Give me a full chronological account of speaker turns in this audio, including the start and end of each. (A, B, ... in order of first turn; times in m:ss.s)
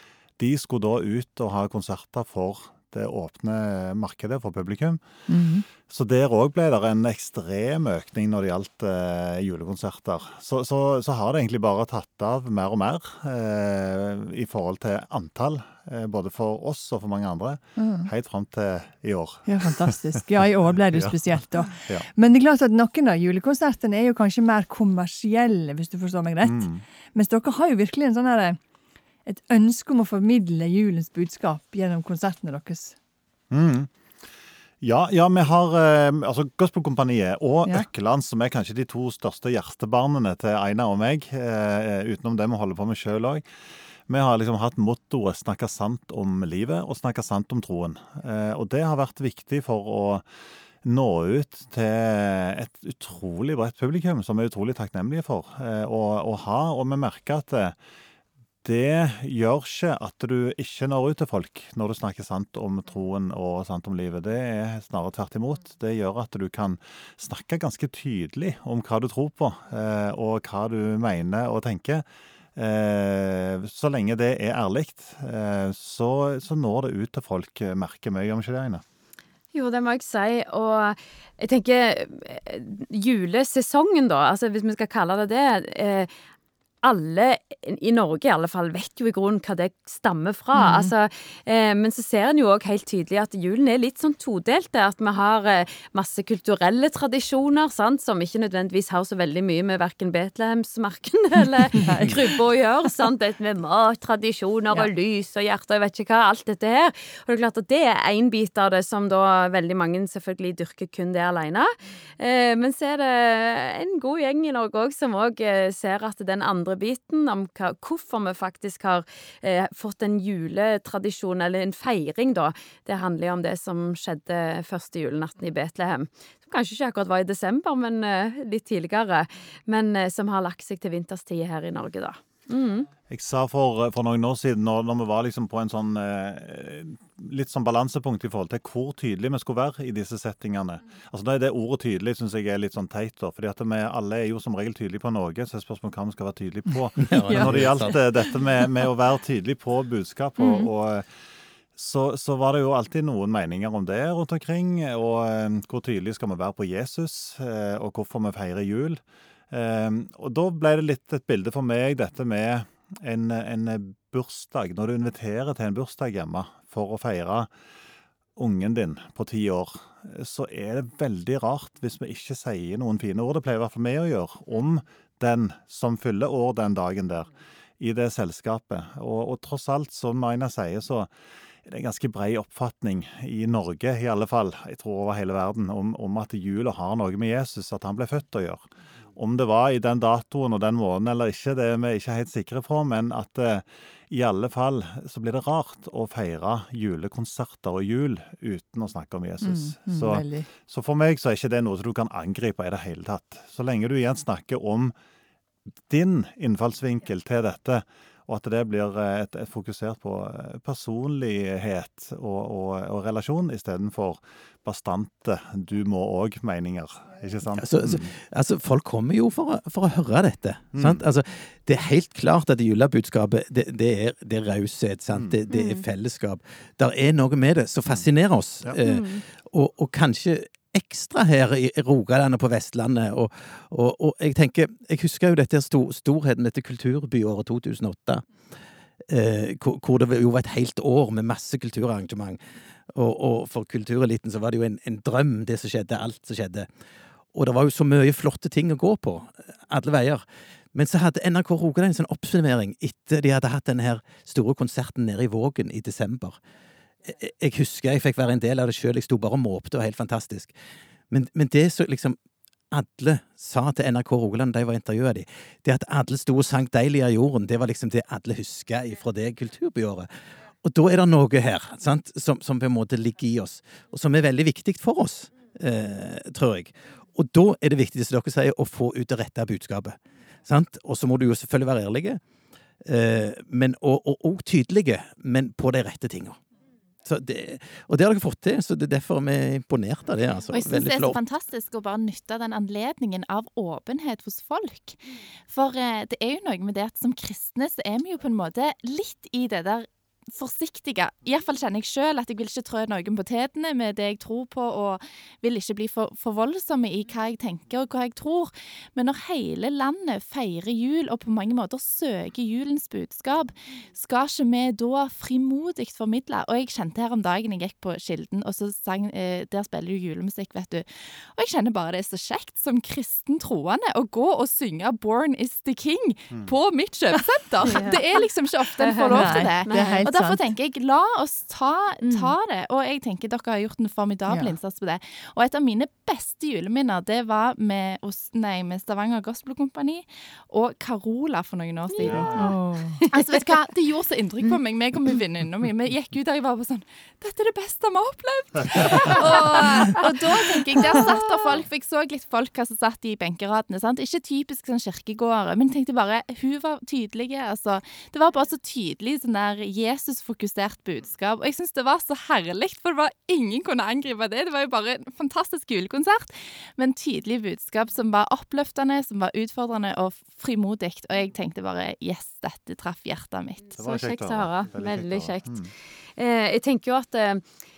0:00.4-0:05.0 A
0:05.3-0:05.6 B
0:05.8-0:19.9 A
0:17.8-0:18.1 B
0:19.4-0:28.6 B
0:20.8-0:22.1 A
0:26.4-0:26.8 A
0:29.2-0:33.0 B
0:33.5-0:33.9 A
0:34.8-0:43.4 A
0:44.1-0:50.2 A
0:50.8-0:57.8 A
0:58.6-1:12.0 A
1:12.6-1:18.8 A
1:19.5-1:26.1 C
1:26.8-2:12.9 C
1:30.5-1:30.9 B
1:41.8-1:42.2 B
2:13.1-2:31.1 A
2:27.0-2:28.0 D
2:27.1-2:27.9 B
2:30.4-2:30.7 B
2:31.7-2:47.5 A
2:48.4-3:01.1 A
3:01.6-3:24.9 A
3:19.4-3:20.5 B
3:25.9-3:38.1 A
3:37.6-3:58.3 D
3:40.7-3:41.0 A
3:45.1-3:45.4 A
3:45.5-3:45.8 C
3:48.8-3:49.2 C
3:59.1-4:06.7 D
4:07.3-4:16.4 D
4:17.0-4:20.5 D
4:21.1-4:22.2 D
4:22.7-4:30.1 D
4:30.6-4:42.2 D
4:42.8-4:46.4 D
4:47.0-4:51.2 D
4:50.5-5:42.6 E
5:27.1-5:27.9 B
5:27.6-5:28.0 C
5:28.8-5:30.0 C
5:29.1-5:30.5 B
5:32.0-5:32.3 B
5:34.3-5:34.6 B
5:41.9-5:43.4 C
5:42.0-5:42.5 A
5:42.4-5:43.0 B
5:43.1-6:13.8 E
5:48.6-5:49.1 A
5:48.8-5:50.1 C
5:49.4-5:50.4 B
5:50.9-5:51.4 C
6:13.8-6:15.7 A
6:13.8-6:17.4 C